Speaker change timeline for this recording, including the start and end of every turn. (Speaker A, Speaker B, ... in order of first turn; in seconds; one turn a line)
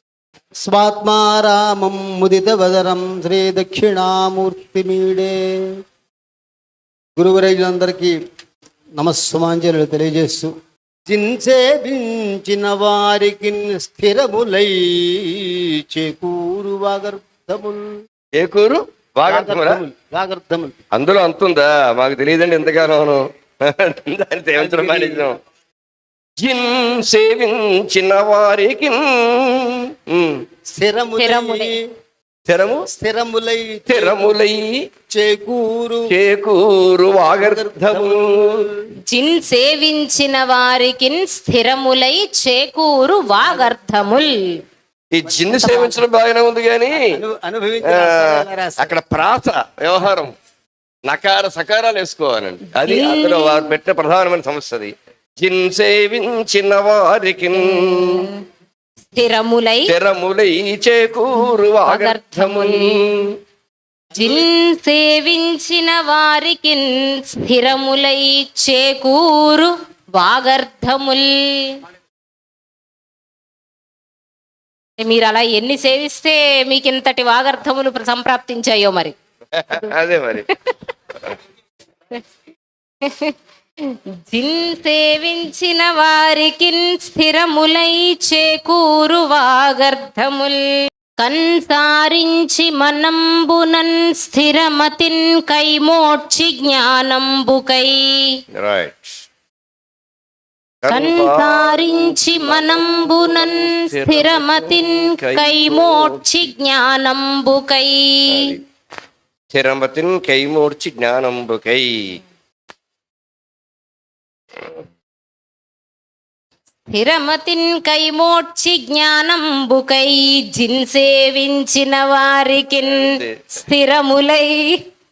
Speaker A: 0.6-5.3
Speaker A: 7.2-8.1
Speaker A: 9.0-10.5
Speaker A: 11.1-17.9
Speaker B: 18.4-19.8
Speaker A: 19.3-20.7
Speaker B: 20.9-25.4
Speaker A: 24.6-25.3
Speaker B: 26.4-30.4
Speaker A: 30.7-31.8
Speaker C: 31.2-31.7
Speaker B: 32.5-32.9
Speaker A: 32.9-34.4
Speaker B: 33.9-34.7
Speaker A: 35.1-36.0
Speaker B: 36.1-38.6
Speaker A: 37.4-38.7
Speaker C: 39.1-44.3
Speaker B: 45.1-47.0
Speaker A: 45.2-45.8
Speaker C: 45.6-46.0
Speaker A: 47.0-49.0
Speaker B: 47.8-50.3
Speaker B: 51.1-58.3
Speaker C: 52.8-53.7
Speaker C: 57.6-58.4
Speaker C: 59.1-59.9
Speaker B: 59.9-63.3
Speaker C: 61.7-63.0
Speaker C: 64.1-71.8
Speaker C: 75.0-79.1
Speaker B: 79.5-80.5
Speaker C: 79.7-80.7
Speaker C: 83.0-83.3
Speaker C: 84.3-98.3
Speaker B: 98.5-99.2
Speaker B: 100.8-106.5
Speaker C: 100.9-108.5
Speaker B: 108.3-108.6
Speaker B: 109.5-111.9
Speaker C: 116.9-124.7
Speaker B: 122.8-123.4